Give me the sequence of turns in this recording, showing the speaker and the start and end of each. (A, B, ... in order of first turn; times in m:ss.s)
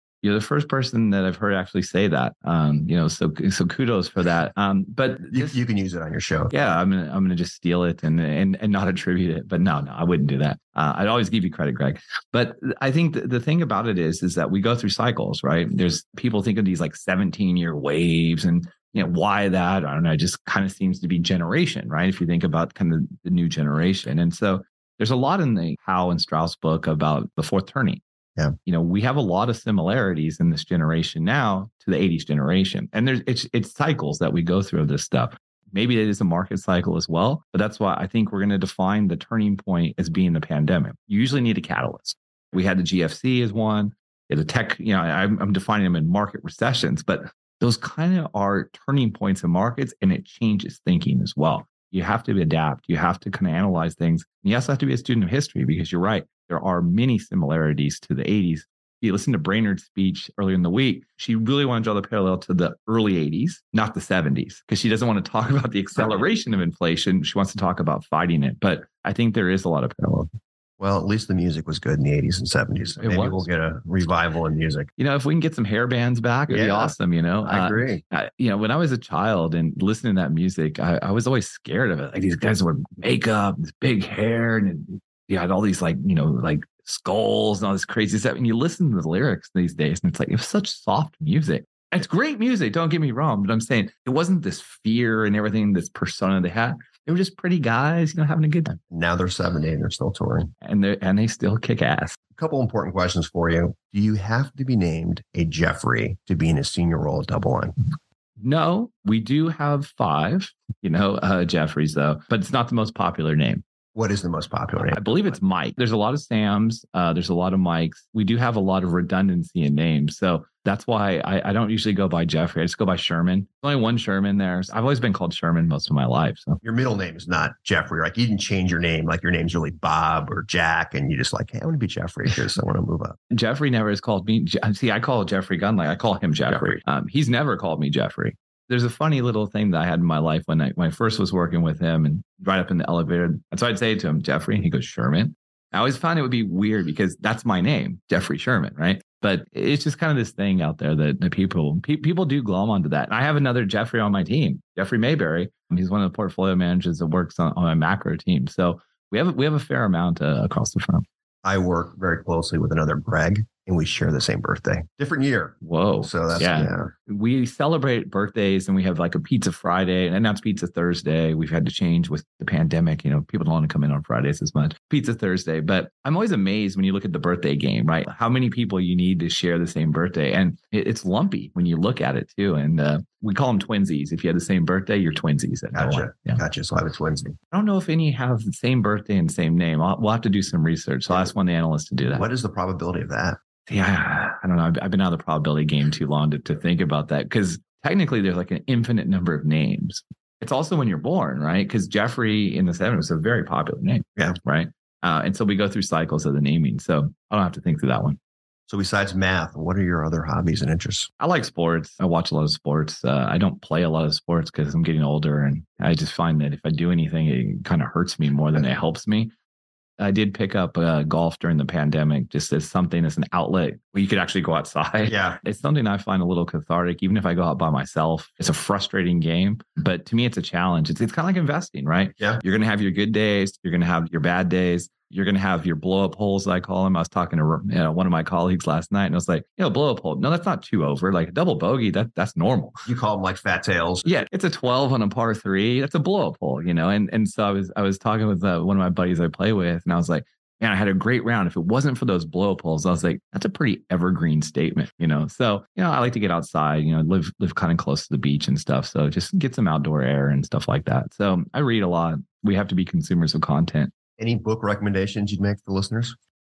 0:00.2-0:05.6 A
0:05.3-0:06.6 B
0:06.5-0:28.0 A
0:28.6-1:10.3 A
1:10.8-1:14.9 B
1:13.0-1:13.4 A
1:15.0-1:38.8 A
1:16.5-1:16.9 B
1:17.4-1:18.0 B
1:38.9-1:40.5 B
1:40.6-1:42.2 A
1:42.4-1:47.8 B
1:48.4-1:53.6 A
1:54.0-1:55.4 B
1:54.9-2:06.6 A
2:06.6-2:13.2 B
2:13.3-2:41.0 A
2:41.4-2:46.9 B
2:45.6-3:06.4 A
3:05.7-3:07.4 B
3:07.5-3:12.3 A
3:12.1-3:13.4 B
3:13.7-3:28.2 A
3:28.7-3:31.1 B
3:31.2-3:39.3 A
3:40.0-4:02.9 A
3:45.1-3:45.4 B
4:02.9-4:04.2 B
4:04.0-4:23.9 A
4:24.2-4:26.2 B